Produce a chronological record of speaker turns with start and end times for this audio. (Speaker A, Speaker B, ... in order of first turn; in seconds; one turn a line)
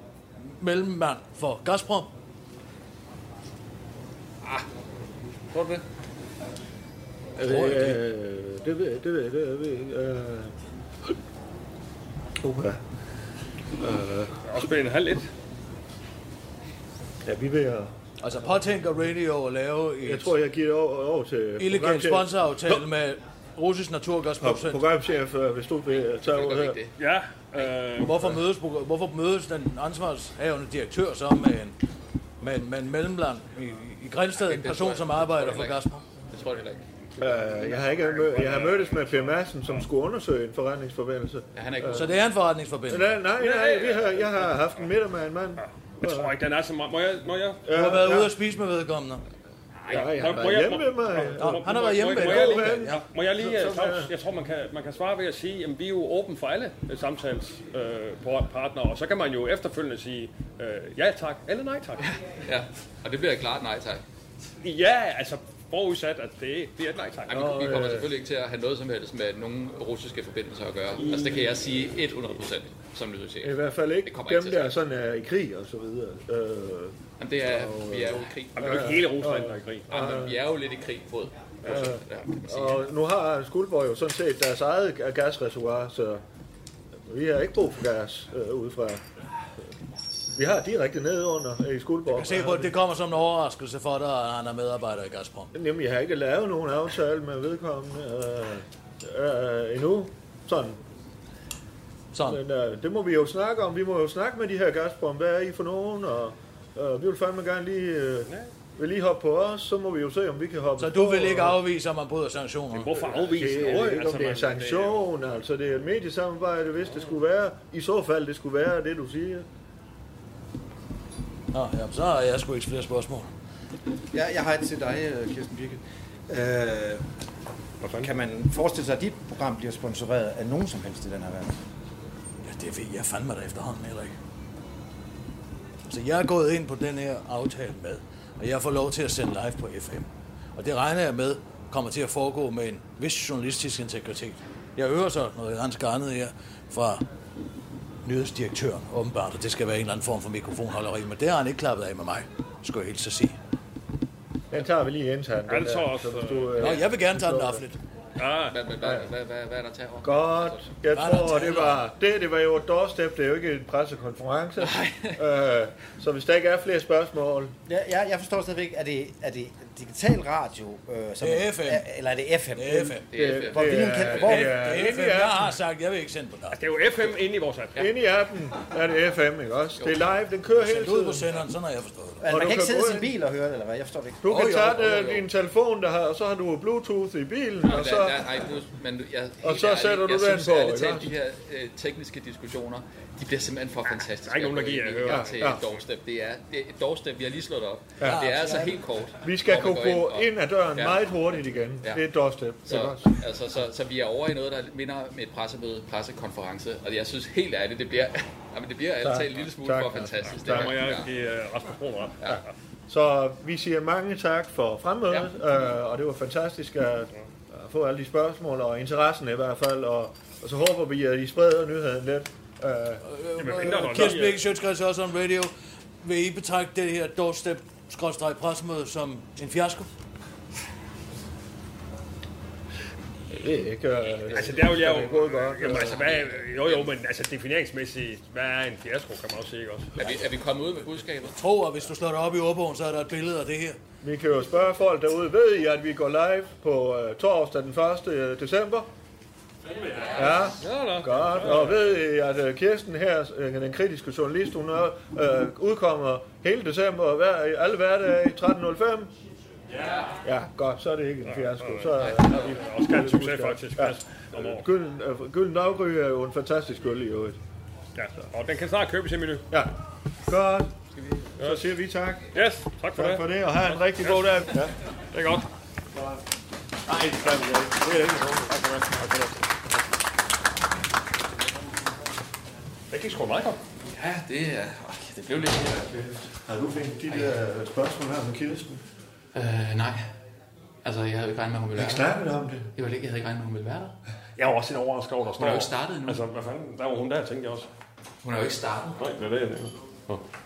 Speaker A: 0.5-2.1
Speaker B: 5.5-5.8
Speaker C: 7.4-10.5
Speaker A: 7.4-8.0
Speaker C: 12.4-12.8
Speaker C: 13.8-14.4
Speaker B: 14.4-15.3
Speaker C: 17.2-17.9
Speaker A: 18.2-20.3
Speaker C: 20.1-22.8
Speaker A: 21.6-24.8
Speaker C: 24.4-26.8
Speaker D: 26.4-27.0
Speaker B: 27.0-28.4
Speaker D: 27.6-27.9
Speaker A: 28.0-31.8
Speaker A: 32.4-36.1
Speaker D: 34.4-36.8
Speaker C: 37.2-42.1
Speaker B: 38.3-39.0
Speaker D: 41.5-42.2
Speaker A: 41.9-43.1
Speaker C: 42.9-46.3
Speaker B: 43.4-44.7
Speaker B: 45.6-47.7
Speaker C: 47.7-48.3
Speaker A: 47.7-49.2
Speaker C: 49.9-54.1
Speaker B: 49.9-62.0
Speaker A: 51.4-53.0
Speaker D: 62.5-64.0
Speaker B: 64.6-68.0
Speaker D: 67.3-74.8
Speaker C: 67.3-68.1
Speaker B: 71.0-71.6
Speaker C: 73.4-80.5
Speaker D: 77.2-79.1
Speaker B: 78.6-80.2
Speaker D: 79.9-82.8
Speaker C: 81.6-86.2
Speaker C: 87.1-89.0
Speaker C: 90.3-92.8
Speaker A: 92.1-95.5
Speaker C: 95.5-100.8
Speaker A: 102.1-102.4
Speaker C: 102.2-111.6
Speaker A: 110.8-113.1
Speaker B: 112.7-115.1
Speaker C: 113.2-119.5
Speaker A: 121.5-123.3
Speaker E: 124.1-127.0
Speaker B: 127.8-128.1
Speaker E: 127.9-131.6
Speaker A: 132.4-134.1
Speaker A: 135.8-147.0
Speaker A: 148.1-153.4
Speaker C: 154.5-157.6
Speaker B: 155.5-156.8
Speaker A: 156.6-157.8
Speaker B: 158.2-158.6
Speaker D: 158.5-161.6
Speaker C: 158.8-159.1
Speaker C: 160.0-167.5
Speaker A: 160.9-161.8
Speaker D: 164.6-165.2
Speaker E: 167.7-174.8
Speaker A: 171.2-171.9
Speaker A: 172.6-173.1
Speaker D: 173.1-174.2
Speaker C: 173.1-175.5
Speaker A: 174.2-176.6
Speaker B: 176.5-177.8
Speaker C: 177.8-181.3
Speaker A: 180.6-182.4
Speaker E: 182.2-184.3
Speaker C: 182.3-183.1
Speaker C: 184.2-188.4
Speaker A: 184.3-184.7
Speaker D: 184.6-185.3
Speaker D: 187.6-201.1
Speaker C: 189.4-191.2
Speaker B: 193.9-195.7
Speaker C: 195.1-195.7
Speaker C: 198.0-198.4
Speaker A: 198.0-198.8
Speaker C: 199.2-203.1
Speaker D: 202.7-211.1
Speaker C: 209.0-210.9
Speaker B: 210.4-212.5
Speaker C: 212.9-224.2
Speaker A: 223.1-229.9
Speaker B: 223.4-224.4
Speaker C: 233.3-236.0
Speaker B: 234.3-239.9
Speaker D: 235.6-236.9
Speaker D: 240.0-241.4
Speaker A: 241.4-243.8
Speaker C: 244.0-248.9
Speaker C: 250.0-259.1
Speaker B: 250.6-251.8
Speaker C: 260.2-267.4
Speaker B: 261.2-264.7
Speaker D: 262.0-262.3
Speaker B: 267.9-269.5
Speaker C: 269.5-270.8
Speaker C: 271.4-272.3
Speaker B: 272.3-275.5
Speaker C: 273.0-274.8
Speaker C: 275.9-276.2
Speaker C: 276.9-278.6
Speaker B: 277.0-277.7
Speaker B: 278.5-279.6
Speaker B: 282.9-283.6
Speaker D: 283.9-285.9
Speaker C: 285.7-288.8
Speaker D: 289.3-290.1
Speaker D: 290.8-292.2
Speaker C: 291.8-292.7
Speaker D: 292.8-294.0
Speaker B: 294.4-297.7
Speaker D: 295.4-296.2
Speaker D: 298.2-299.1
Speaker B: 299.0-300.2